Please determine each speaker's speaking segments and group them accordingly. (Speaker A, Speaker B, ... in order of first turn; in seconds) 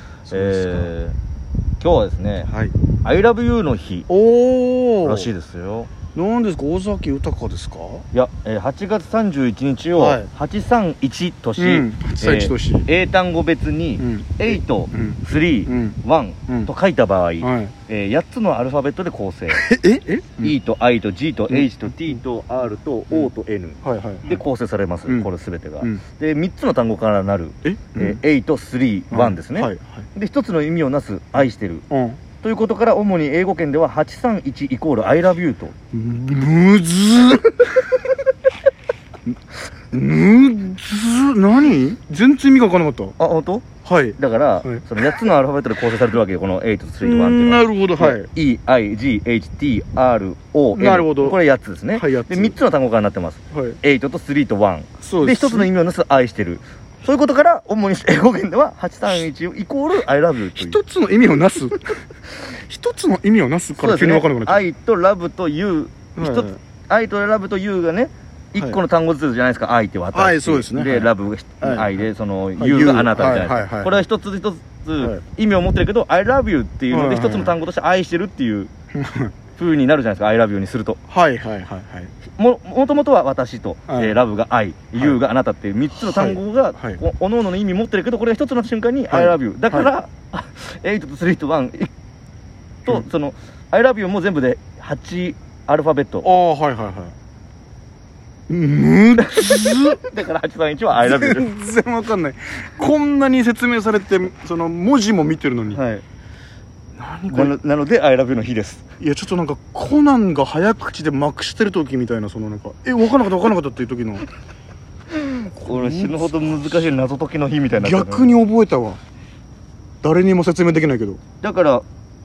Speaker A: 0.3-0.9, 2.5-2.8, 4.1-5.3, 6.1-8.1, 10.0-10.3, 11.6-12.9, 14.0-16.7, 17.4-17.7, 19.5-20.6, 21.5-22.2, 23.8-24.4, 27.6-28.2, 29.1-30.1, 31.4-32.2, 35.9-38.0, 39.9-43.2, 43.8-44.8, 47.0-48.3, 50.7-51.4, 52.0-52.6, 53.5-53.8, 55.0-55.7, 60.5-64.7, 66.2-66.6, 68.6-68.8, 70.1-72.1, 72.6-74.0, 76.9-77.5, 78.9-79.3, 81.1-82.1, 83.9-84.2, 86.0-87.0, 89.1-89.9, 96.2-97.2, 98.5-100.1, 101.0-105.8, 107.0-107.6, 109.0-114.2, 115.5-116.9, 117.7-119.0, 120.0-121.2
Speaker B: 0.3-1.2, 1.8-2.5, 3.0-4.1, 5.0-5.9, 8.1-19.6, 20.4-31.9, 32.4-35.8, 43.2-43.7, 44.2-60.8, 63.8-78.7, 79.6-81.0, 82.4-91.9, 92.8-96.3, 99.2-101.5, 105.7-106.0, 107.3-108.8, 115.2-118.3, 121.4-121.8